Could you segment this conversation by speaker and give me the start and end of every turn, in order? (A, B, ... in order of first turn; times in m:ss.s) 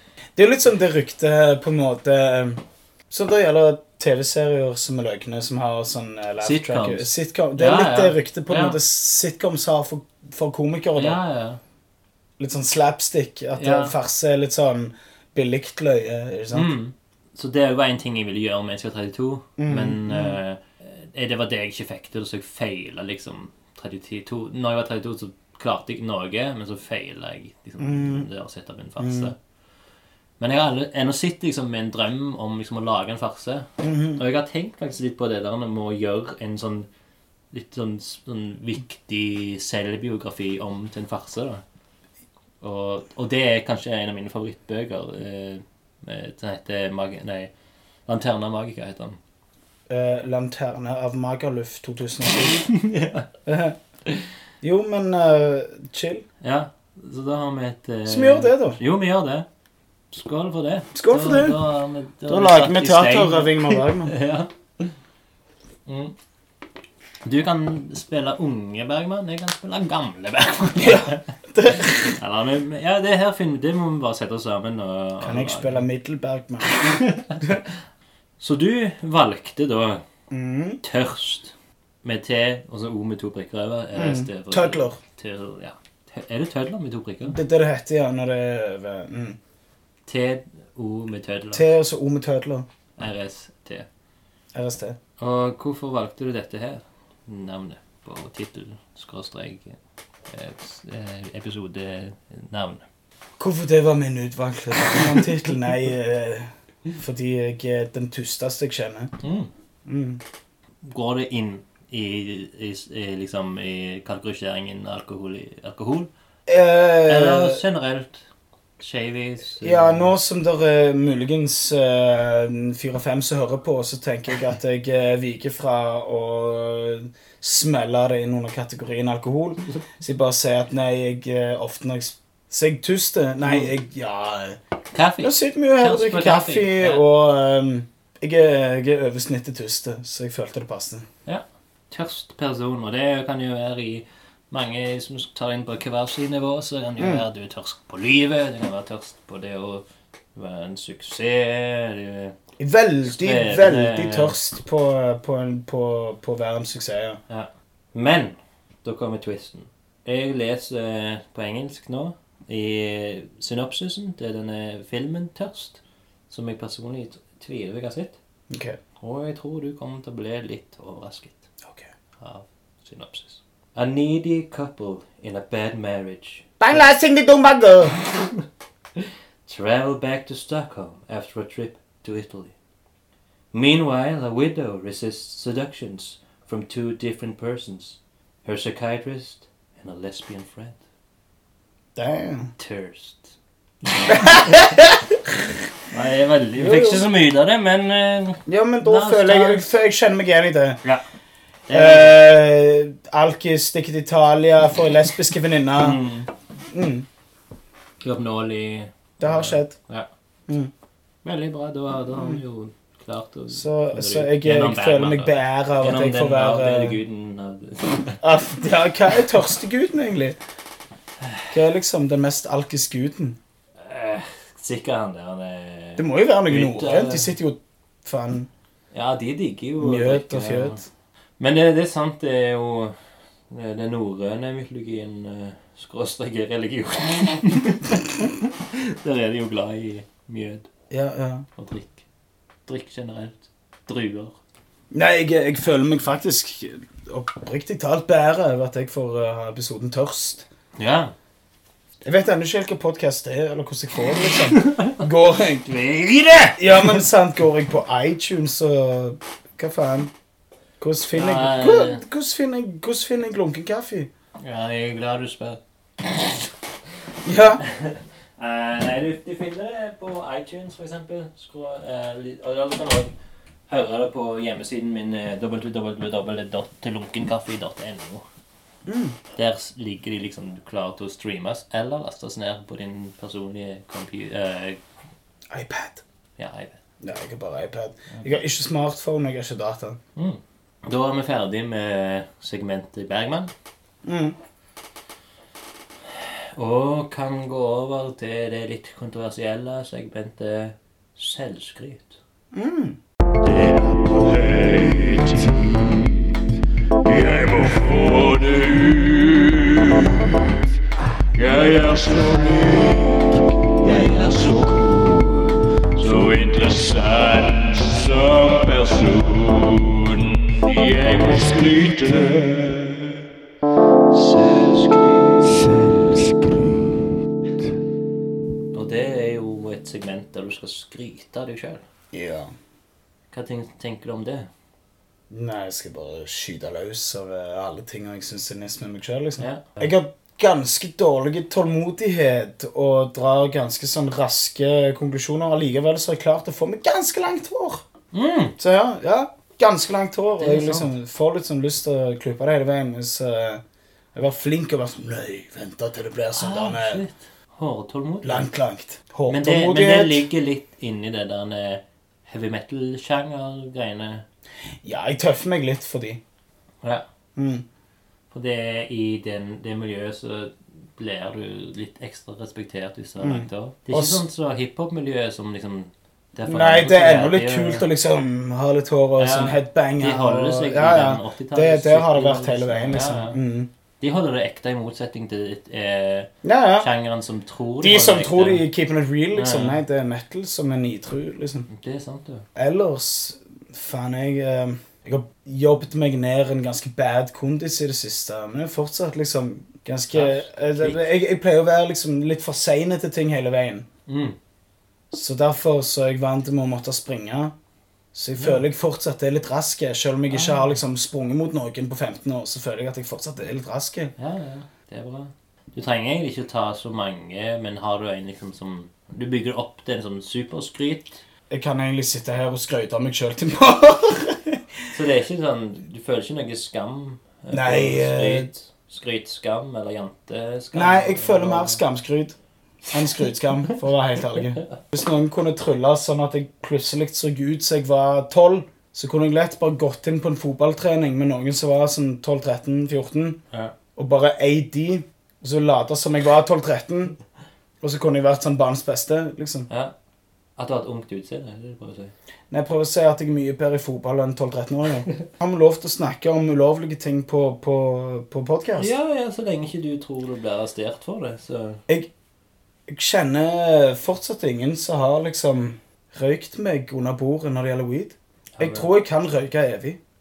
0:00.4-0:11.2 A
0:06.4-0:08.8 B
0:11.0-0:11.6 B
0:12.4-0:16.7 A
0:13.5-0:13.9 B
0:16.5-0:29.4 B
0:19.6-0:20.4 A
0:27.8-0:28.3 A
0:29.0-0:29.3 A
0:30.4-0:36.9 B
0:33.8-0:34.2 A
0:37.5-0:41.6 B
0:42.6-0:47.5 B
0:48.1-0:49.2 B
0:49.9-0:52.7 A
0:52.7-0:53.3 B
0:53.4-0:53.8 A
0:54.6-0:56.2 A
0:56.4-0:59.5 B
0:58.0-0:58.8 A
1:00.1-1:04.9 B
1:00.9-1:01.6 A
1:02.3-1:04.1 A
1:05.8-1:06.1 B
1:07.2-1:15.8 B
1:10.7-1:12.2 A
1:15.2-1:17.6 A
1:16.7-1:17.7 B
1:18.4-1:20.0 B
1:20.3-1:20.8 A
1:20.8-1:27.4 B
1:23.9-1:25.0 A
1:27.2-1:29.4 A
1:30.0-1:31.6 B
1:31.5-1:32.6 A
1:33.0-1:33.9 B
1:34.5-1:35.0 A
1:35.2-1:39.8 B
1:40.3-1:42.8 B
1:43.4-1:49.1 A
1:49.2-1:49.5 B
1:49.8-1:50.2 A
1:50.8-1:56.1 B
1:56.5-1:57.6 A
1:57.1-1:58.2 B
1:58.8-2:00.1 B
1:59.6-2:14.6 A
2:13.4-2:13.7 B
2:14.9-2:17.0 B
2:15.2-2:21.1 A
2:21.2-2:32.3 B
2:27.0-2:27.2 A
2:32.6-2:37.2 A
2:33.0-2:34.3 B
2:37.3-2:48.2 B
2:48.5-2:48.8 A
2:49.0-2:51.5 B
2:52.2-2:56.8 B
2:56.6-2:58.0 A
2:58.0-2:58.4 B
2:59.0-3:02.5 B
3:03.5-3:10.8 B
3:11.9-3:12.5 A
3:12.6-3:14.7 B
3:14.1-3:15.4 A
3:15.9-3:19.8 B
3:16.6-3:17.0 A
3:18.5-3:20.8 A
3:21.7-3:22.2 B
3:21.7-3:26.0 A
3:25.8-3:26.3 B
3:26.7-3:27.0 A
3:28.0-3:30.1 B
3:29.2-3:29.8 A
3:31.2-3:38.2 B
3:32.1-3:32.4 A
3:33.5-3:37.0 A
3:38.2-3:40.4 A
3:41.2-3:41.5 B
3:41.5-3:43.4 A
3:43.8-3:47.3 B
3:46.0-3:48.5 A
3:48.9-3:50.8 B
3:49.8-3:50.9 A
3:51.4-3:53.0 B
3:53.5-4:00.7 B
4:00.9-4:01.4 A
4:01.6-4:02.0 B
4:02.6-4:04.4 B
4:04.9-4:10.4 A
4:10.8-4:11.1 B
4:12.0-4:15.7 A
4:14.5-4:15.0 B
4:15.6-4:16.9 B
4:16.6-4:20.1 A
4:20.8-4:24.1 A
4:21.1-4:22.0 B
4:24.4-4:26.4 B
4:27.2-4:27.6 A
4:27.6-4:33.1 B
4:33.7-4:38.2 B
4:38.8-4:39.2 A
4:39.3-4:44.8 B
4:45.5-4:46.0 A
4:46.4-4:46.8 B
4:47.0-4:50.0 A
4:50.2-4:53.5 B
4:54.0-4:54.4 A
4:56.1-5:02.2 B
5:02.5-5:03.0 A
5:03.5-5:05.4 B
5:07.1-5:09.6 B
5:11.4-5:13.2 B
5:13.8-5:15.2 B
5:13.9-5:15.1 C
5:16.0-5:22.6 B
5:24.1-5:25.6 B
5:25.6-5:27.0 C
5:28.7-5:31.8 B
5:32.1-5:32.5 A
5:33.3-5:34.5 B
5:35.3-5:47.8 A
5:39.4-5:39.9 B
5:48.1-5:48.6 B
5:48.6-5:53.6 A
5:50.4-5:50.9 B
5:54.1-5:57.0 A
5:56.3-5:58.5 B
5:58.2-6:00.2 A
5:59.3-6:04.2 B
6:04.8-6:06.2 A
6:07.4-6:07.6 A
6:08.3-6:17.8 B
6:13.2-6:14.2 A
6:16.5-6:23.7 A
6:19.2-6:23.4 B
6:24.0-6:28.6 B
6:26.4-6:26.9 A
6:27.8-6:31.7 A
6:29.3-6:29.8 B
6:31.7-6:32.4 B
6:32.6-6:43.9 A
6:40.1-6:41.0 B
6:44.1-6:44.4 B
6:45.1-6:47.5 A
6:48.1-6:54.1 A
6:48.3-6:48.6 B
6:50.3-6:50.8 B
6:54.2-7:01.2 B
7:01.5-7:04.6 A
7:04.9-7:11.8 B
7:07.5-7:08.5 A
7:10.7-7:12.4 A
7:12.9-7:23.4 A
7:23.9-7:27.2 A
7:27.8-7:29.7 A
7:30.6-7:32.1 B
7:32.5-7:38.9 A
7:38.8-7:41.8 B
7:42.9-7:50.0 A
7:48.6-7:48.9 B